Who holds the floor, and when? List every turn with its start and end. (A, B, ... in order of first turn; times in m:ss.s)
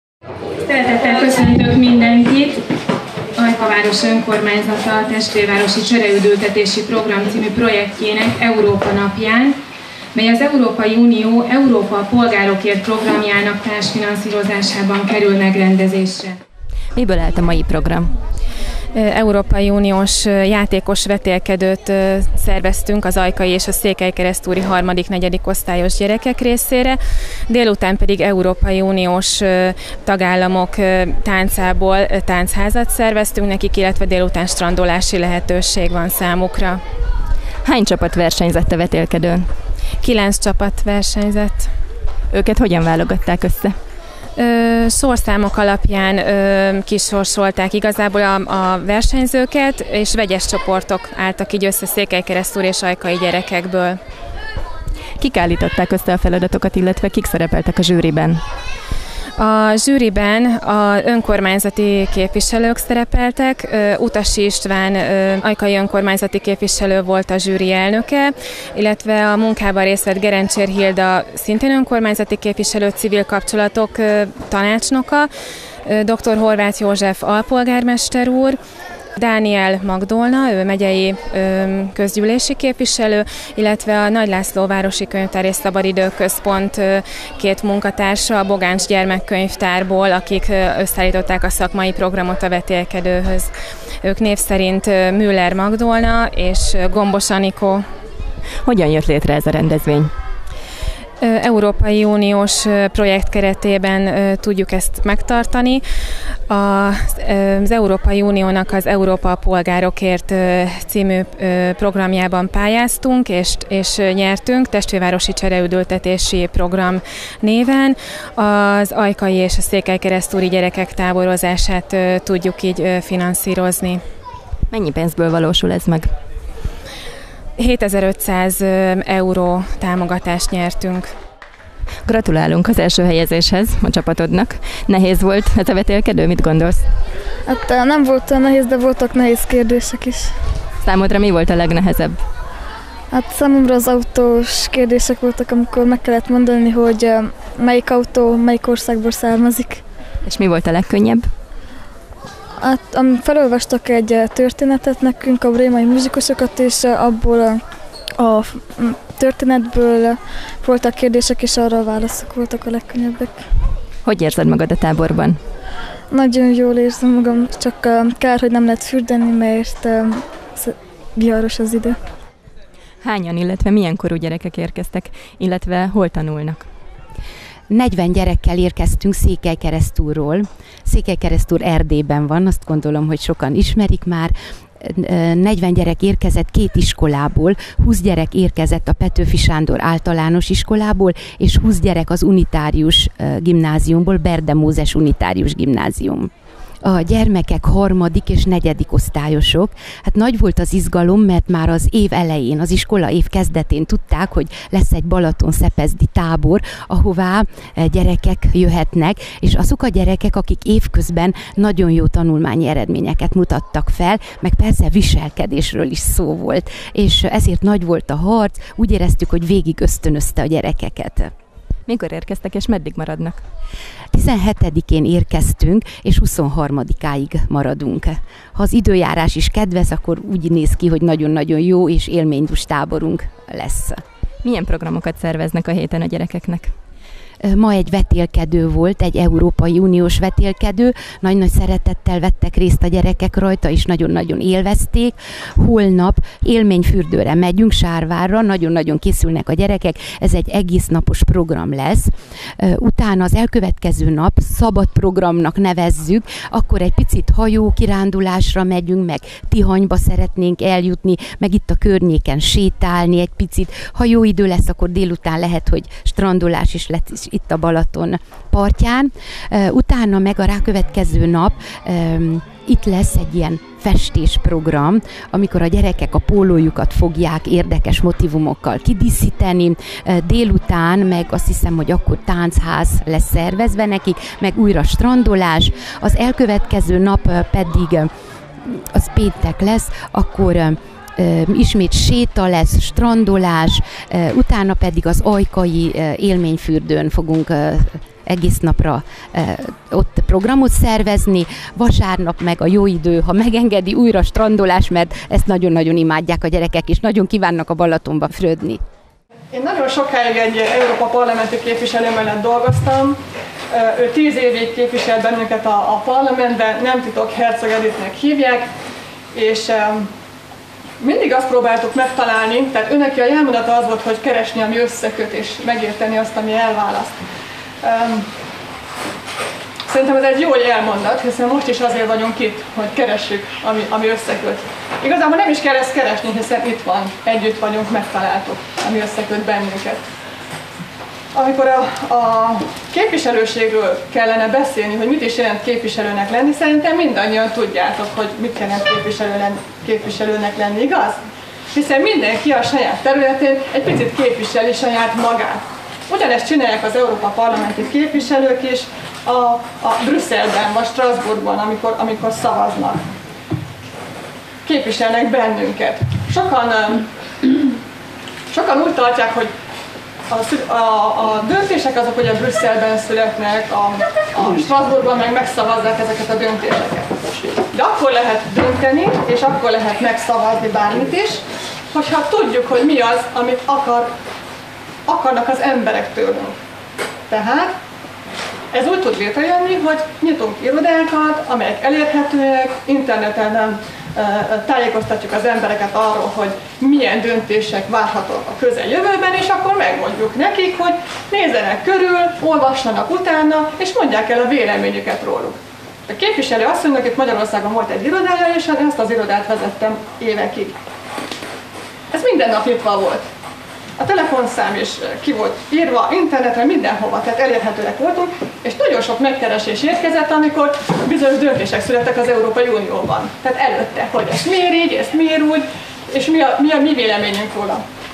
0:00.6-0:02.6 A
0:03.4-0:09.6 A
0:10.1-0:16.4 A
0:17.0-0:18.1 B
0:18.9-0:36.8 A
0:37.6-0:39.5 B
0:40.0-0:41.7 A
0:42.3-0:43.7 B
0:44.4-0:54.0 A
0:55.2-0:58.4 B
0:59.4-1:15.3 A
1:15.8-1:18.6 A
1:19.2-1:33.5 A
1:34.0-1:37.8 A
1:38.6-1:40.1 B
1:41.2-1:45.8 A
1:46.5-2:04.0 A
2:04.7-2:06.1 B
2:07.6-2:11.1 A
2:12.0-2:16.8 B
2:17.5-2:20.3 C
2:20.8-2:22.2 B
2:23.1-2:29.8 C
2:30.2-2:31.3 B
2:32.6-2:37.6 C
2:38.2-2:43.4 C
2:44.0-2:45.4 B
2:46.1-2:52.0 C
2:53.0-2:56.7 B
2:57.7-3:16.3 D
3:16.8-3:41.3 D
3:41.9-3:43.4 B
3:44.1-3:54.0 D
3:54.4-3:56.7 B
3:57.4-4:48.1 D
4:48.7-5:08.8 D
5:09.5-5:13.2 E
5:13.7-5:18.6 E
5:19.3-5:20.1 E
5:21.0-5:27.1 E
5:27.8-5:28.2 E
5:29.9-5:40.0 E
5:41.3-5:51.2 E
5:51.7-6:03.0 E
6:04.6-6:07.0 E
6:08.5-6:09.5 E
6:10.3-6:21.4 E
6:21.9-6:24.1 E
6:25.1-6:26.5 E
6:27.3-6:27.7 E
6:28.7-6:45.6 E
6:46.1-6:50.8 E
6:52.1-6:53.3 E
6:54.0-7:07.8 E